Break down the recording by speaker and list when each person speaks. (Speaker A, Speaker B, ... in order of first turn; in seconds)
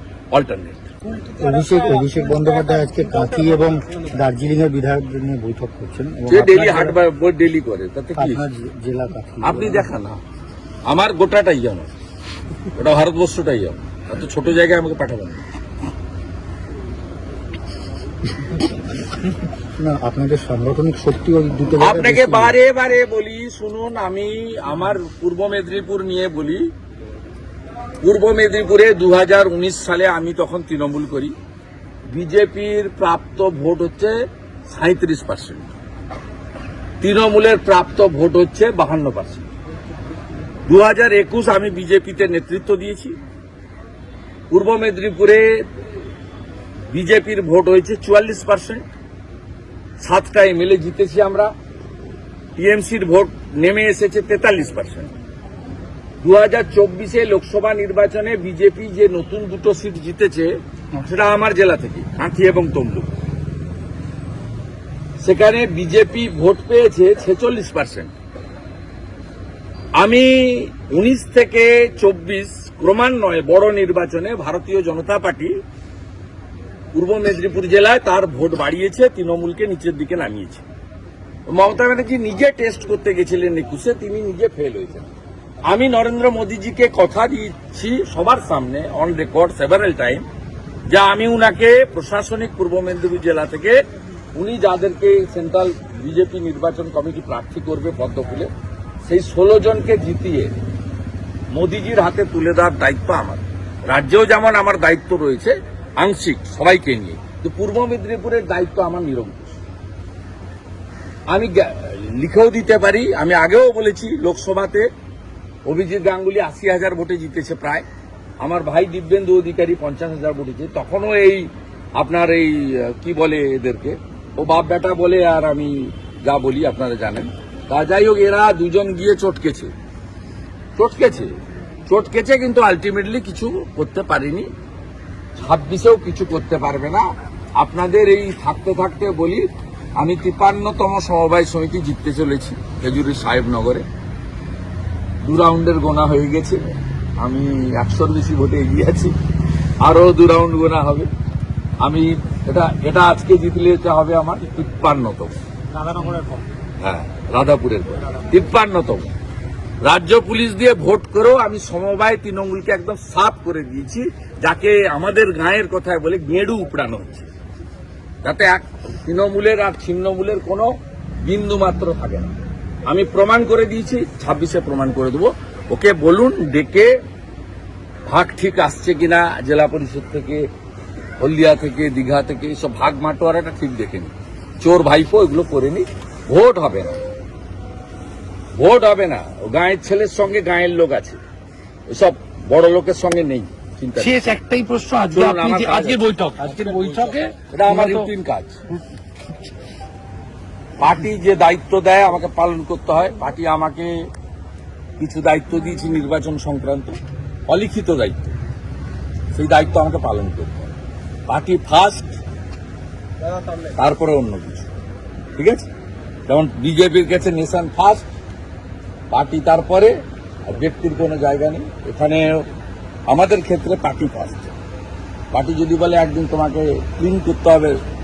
Speaker A: 0.3-0.9, 6.3-8.4, 9.4-10.2, 10.8-11.9, 12.7-15.4, 21.8-26.7, 28.0-31.3, 32.1-34.1, 34.7-35.7, 37.0-39.5, 40.7-43.1, 44.5-45.6, 46.9-48.8, 50.0-51.5, 52.5-55.1, 56.2-63.1, 65.2-68.1, 70.0-75.5, 76.9-80.6, 81.5-85.1, 85.7-90.2, 90.9-93.8, 94.3-98.5, 99.1-100.5, 101.5-109.5, 111.3-114.9, 115.6-117.8, 118.4-129.7, 130.8-131.3, 131.9-134.5, 135.4-143.8, 145.2-149.1, 149.8-151.1, 151.8-155.4, 156.8-159.1, 159.8-167.3, 168.2-170.7, 171.2-172.3, 172.8-176.9, 178.1-180.4, 181.2-187.0, 188.6-191.2, 191.9-194.3, 195.1-197.0, 197.5-198.6, 200.8-204.0, 205.0-208.2, 209.3-210.8, 211.3-212.2, 213.7-214.7, 215.4-215.7, 216.3-218.1, 219.1-222.4, 223.1-224.5, 225.3-227.8
Speaker B: 1.3-7.0, 8.2-9.9, 19.8-22.5
Speaker C: 194.0-198.1